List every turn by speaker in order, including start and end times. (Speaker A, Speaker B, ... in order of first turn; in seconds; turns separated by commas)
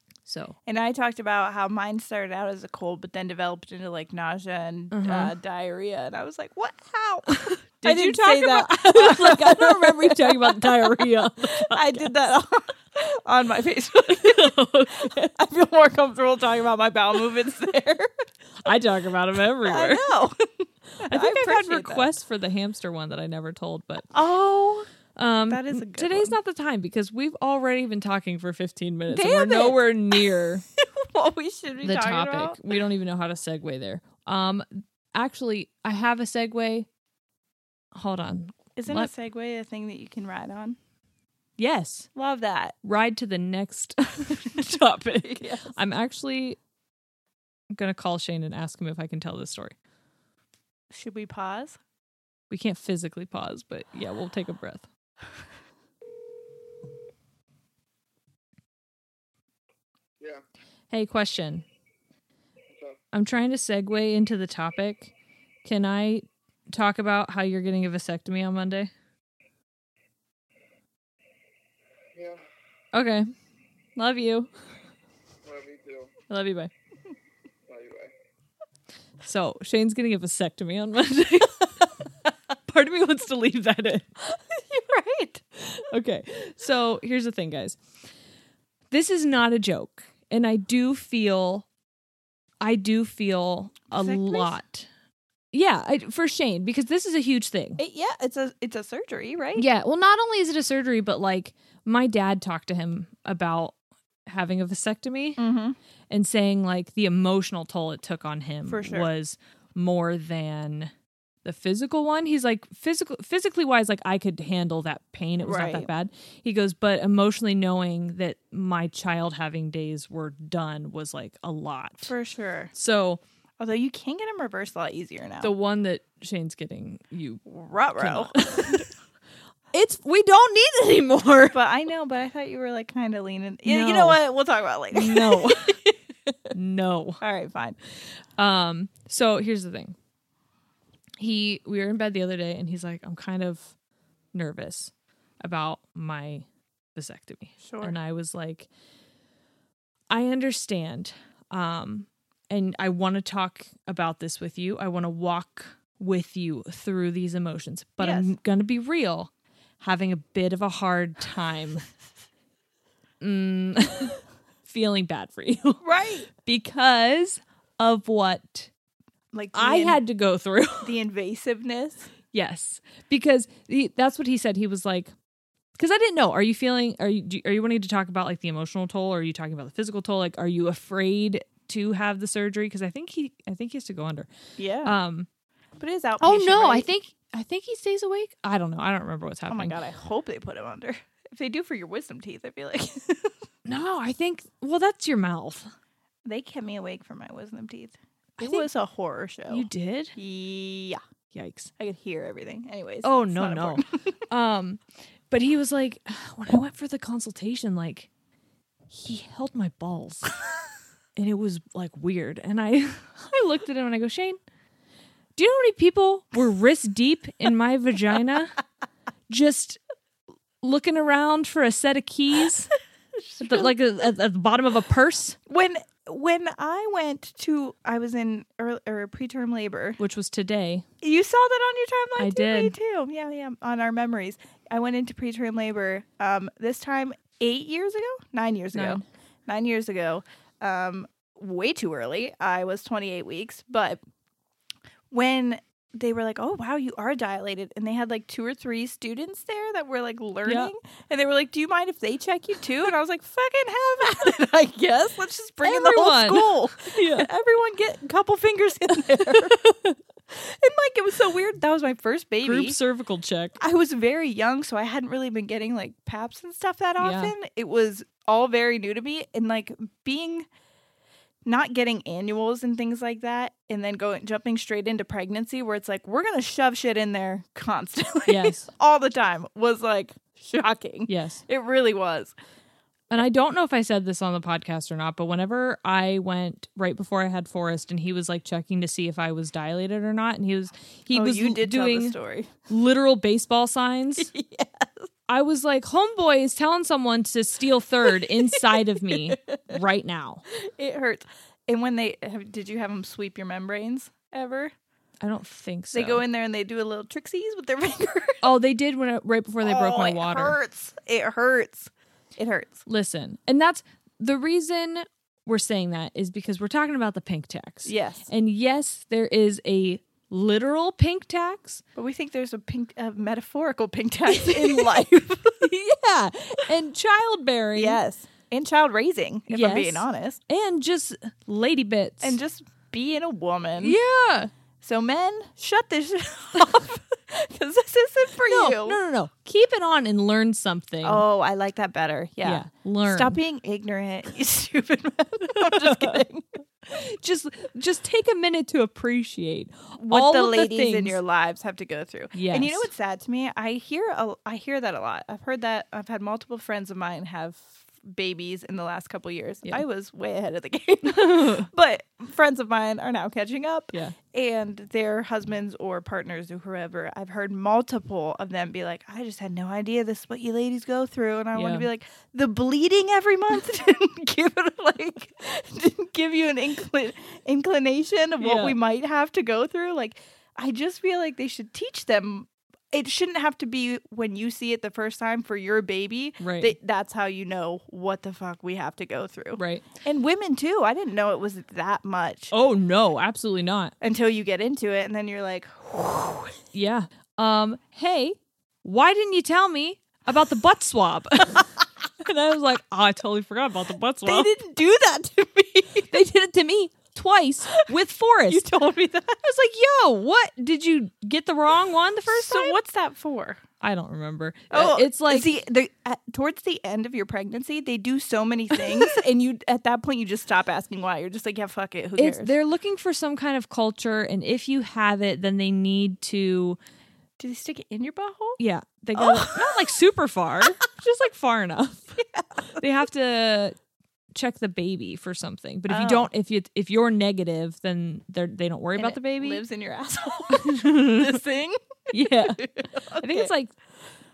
Speaker A: 0.2-0.5, Speaker B: 0.7-18.1, Speaker A: 4.9-5.3, Speaker A: 7.4-12.1, Speaker A: 14.2-15.2, Speaker A: 18.6-20.0, Speaker B: 19.6-22.1, Speaker A: 21.1-24.1, Speaker B: 24.1-24.9, Speaker A: 25.2-30.6, Speaker B: 25.5-26.3, Speaker B: 29.1-30.2, Speaker B: 30.8-32.6, Speaker A: 31.8-36.9, Speaker A: 37.9-39.1, Speaker B: 38.8-40.8, Speaker A: 41.6-42.1, Speaker B: 42.1-42.8, Speaker A: 42.8-46.6, Speaker B: 45.2-45.7, Speaker A: 47.7-49.7, Speaker B: 50.9-51.8, Speaker A: 52.5-54.8, Speaker A: 60.9-61.6, Speaker A: 63.1-65.1, Speaker A: 65.6-68.9, Speaker A: 72.9-73.3, Speaker A: 74.0-74.5, Speaker A: 76.3-76.7, Speaker A: 79.2-81.9, Speaker A: 82.7-84.1, Speaker B: 84.2-85.4, Speaker A: 85.7-87.8, Speaker A: 88.9-91.7, Speaker A: 92.6-94.9, Speaker B: 93.9-94.5, Speaker A: 95.5-97.8, Speaker B: 97.8-99.6, Speaker A: 99.5-103.7, Speaker A: 104.3-105.4, Speaker B: 105.4-105.8, Speaker A: 106.1-110.9, Speaker B: 108.7-109.1, Speaker A: 111.4-122.1, Speaker B: 115.4-115.9, Speaker B: 122.0-122.7, Speaker A: 122.7-123.2, Speaker B: 123.6-125.5, Speaker A: 125.4-127.4, Speaker B: 127.5-128.8, Speaker A: 128.0-128.8, Speaker A: 129.7-131.6, Speaker B: 131.5-135.9, Speaker A: 133.6-134.2, Speaker A: 134.9-135.8, Speaker A: 136.5-137.2, Speaker B: 137.2-137.8, Speaker A: 138.4-139.9, Speaker A: 141.2-143.7, Speaker A: 144.3-146.4, Speaker A: 146.9-148.7, Speaker B: 147.6-147.9, Speaker A: 150.1-159.3, Speaker B: 158.0-158.3, Speaker A: 159.8-161.8, Speaker A: 163.2-165.8, Speaker B: 165.8-166.3, Speaker A: 166.4-168.7, Speaker B: 169.3-170.0, Speaker A: 169.5-170.9, Speaker B: 170.8-172.1, Speaker A: 172.3-175.1, Speaker A: 175.8-184.3, Speaker B: 184.6-185.0, Speaker A: 184.8-185.3, Speaker B: 185.8-186.9, Speaker A: 186.2-189.8, Speaker B: 189.5-193.3, Speaker A: 193.6-195.7, Speaker B: 196.2-201.0, Speaker A: 198.4-198.7, Speaker A: 199.5-200.1, Speaker A: 201.3-201.7, Speaker B: 201.8-204.1, Speaker A: 203.0-204.8, Speaker A: 205.3-208.1, Speaker A: 208.9-210.3, Speaker A: 211.2-214.4, Speaker A: 215.3-218.6, Speaker A: 219.3-219.8, Speaker A: 220.6-222.7, Speaker B: 223.4-223.7, Speaker A: 223.4-225.4, Speaker B: 225.5-230.0, Speaker A: 230.0-230.8, Speaker B: 231.0-244.0, Speaker A: 232.2-232.7, Speaker A: 238.7-239.0, Speaker B: 245.1-259.6, Speaker A: 250.4-250.7, Speaker A: 255.6-257.3, Speaker A: 259.1-259.9, Speaker B: 260.3-262.7, Speaker A: 262.4-263.6, Speaker B: 263.6-270.5, Speaker A: 267.0-267.3, Speaker B: 271.4-282.3, Speaker A: 278.3-278.7, Speaker A: 281.1-281.4, Speaker A: 283.1-292.1, Speaker B: 291.1-292.5, Speaker A: 292.7-294.3, Speaker B: 294.2-295.1, Speaker A: 295.3-300.4, Speaker B: 299.3-299.6, Speaker B: 300.8-304.7, Speaker A: 305.2-306.2, Speaker B: 305.9-308.4, Speaker A: 308.4-310.6, Speaker B: 309.6-312.8, Speaker A: 312.9-321.8, Speaker B: 317.9-318.3, Speaker B: 321.9-325.6, Speaker A: 324.3-325.0, Speaker A: 325.6-328.0, Speaker B: 327.8-330.4, Speaker A: 329.5-332.4, Speaker B: 332.2-334.0, Speaker A: 333.8-334.5, Speaker B: 334.8-339.0, Speaker A: 338.5-341.2, Speaker B: 341.0-346.4, Speaker A: 342.4-343.4, Speaker A: 345.8-346.2, Speaker A: 346.9-351.2, Speaker B: 350.0-392.5, Speaker A: 352.3-352.9, Speaker A: 361.1-361.7, Speaker A: 371.5-371.9, Speaker A: 378.4-378.8, Speaker A: 386.4-386.7, Speaker A: 389.6-389.8, Speaker A: 392.5-393.9, Speaker B: 394.0-396.5, Speaker A: 396.7-401.7, Speaker A: 402.2-404.5, Speaker B: 404.2-406.1, Speaker A: 406.1-408.6, Speaker B: 408.5-409.4, Speaker A: 409.4-412.8, Speaker B: 412.3-413.6, Speaker A: 413.8-415.5, Speaker B: 414.7-422.5, Speaker A: 422.2-426.8, Speaker B: 427.4-428.6, Speaker A: 428.6-432.2, Speaker B: 429.1-429.9, Speaker B: 432.2-432.6, Speaker A: 432.8-433.7, Speaker A: 434.3-439.6, Speaker B: 435.9-436.3, Speaker B: 439.0-443.5, Speaker A: 440.6-441.4, Speaker A: 442.1-442.6, Speaker A: 443.2-443.7